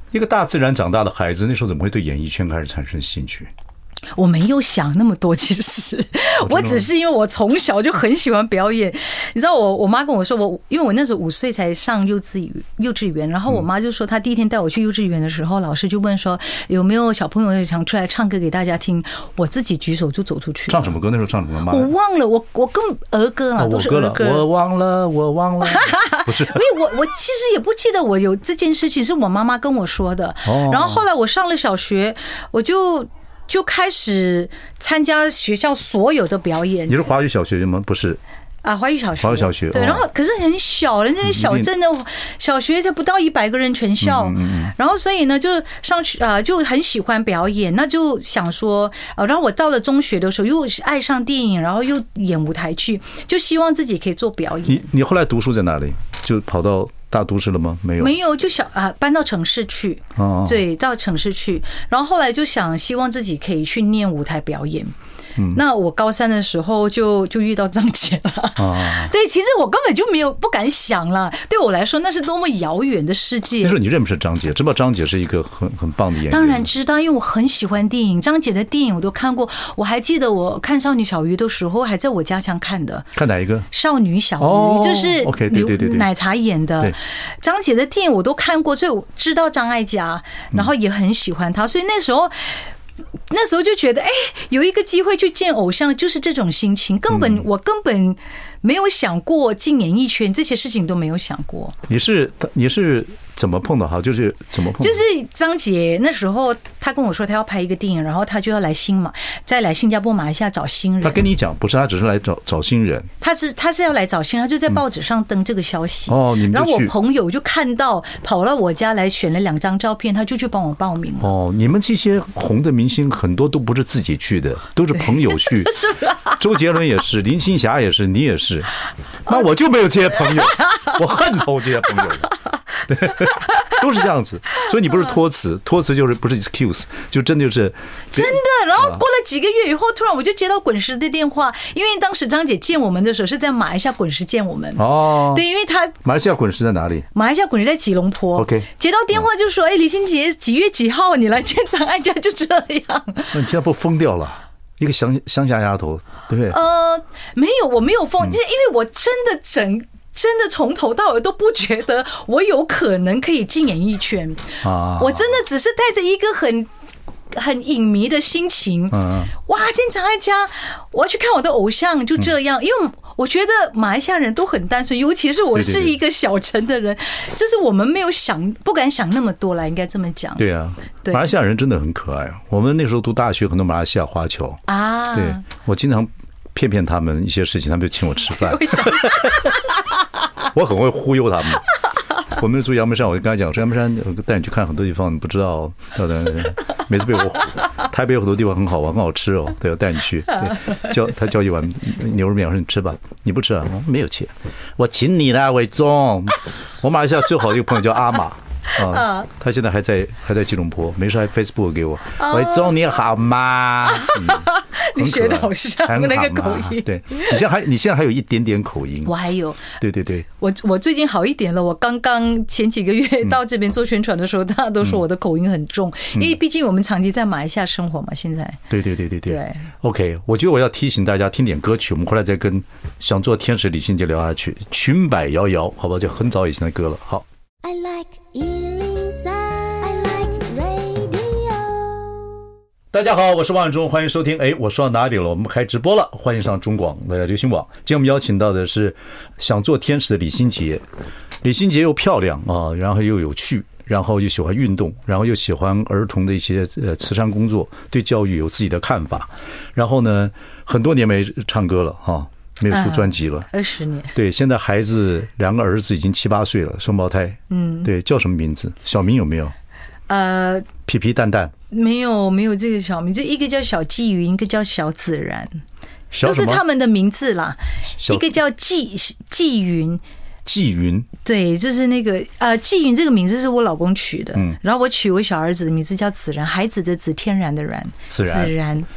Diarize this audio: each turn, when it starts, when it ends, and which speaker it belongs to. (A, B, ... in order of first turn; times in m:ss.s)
0:00.1-0:03.5 A
0:04.2-0:21.0 B
0:06.4-0:06.9 A
0:20.7-0:21.9 A
0:21.7-0:24.5 B
0:23.6-0:26.7 A
0:25.6-0:37.0 B
0:30.4-0:31.0 A
0:36.9-0:38.2 A
0:38.6-0:54.9 B
0:39.2-0:40.0 A
0:41.2-0:41.7 A
0:44.0-0:44.7 A
0:54.7-0:58.2 A
0:58.0-1:04.9 B
1:00.2-1:00.6 A
1:05.5-1:13.8 B
1:08.6-1:09.1 A
1:13.6-1:16.7 A
1:16.3-1:23.1 B
1:23.2-1:23.7 A
1:23.7-1:32.6 B
1:24.4-1:26.1 A
1:33.3-1:41.8 B
1:37.1-1:37.4 A
1:41.9-1:45.0 A
1:44.8-1:51.2 B
1:51.0-1:53.1 A
1:53.2-2:01.3 B
1:56.1-1:56.9 A
2:01.2-2:08.7 A
2:05.3-2:06.4 B
2:09.3-2:12.3 A
2:10.2-2:11.0 B
2:12.9-2:19.0 A
2:18.1-2:26.0 B
2:24.8-2:25.4 A
2:26.0-2:27.1 A
2:27.1-2:33.4 B
2:28.4-2:28.7 A
2:33.3-2:36.6 A
2:36.5-2:46.7 B
2:44.6-2:45.3 A
2:47.3-3:00.4 B
2:48.9-2:49.3 A
2:55.6-2:56.0 A
3:00.4-3:09.5 A
3:04.7-3:05.4 B
3:08.3-3:09.5 B
3:10.5-3:11.7 A
3:12.3-3:39.1 A
3:28.8-3:29.3 B
3:32.2-3:32.8 B
3:33.8-3:37.4 B
3:39.1-3:39.8 B
3:39.8-3:40.3 A
3:40.4-3:48.6 B
3:48.7-3:57.2 A
3:49.3-3:49.7 B
3:57.6-4:02.4 C
4:02.9-4:10.8 A
4:11.4-4:23.5 A
4:22.7-4:24.2 B
4:24.2-4:29.5 A
4:27.5-4:27.9 B
4:30.1-4:30.7 B
4:30.9-4:31.5 A
4:31.7-4:35.6 B
4:36.1-4:36.6 A
4:36.2-4:40.0 B
4:38.0-4:38.3 A
4:40.5-4:41.1 A
4:41.2-4:48.9 B
4:48.1-4:48.5 A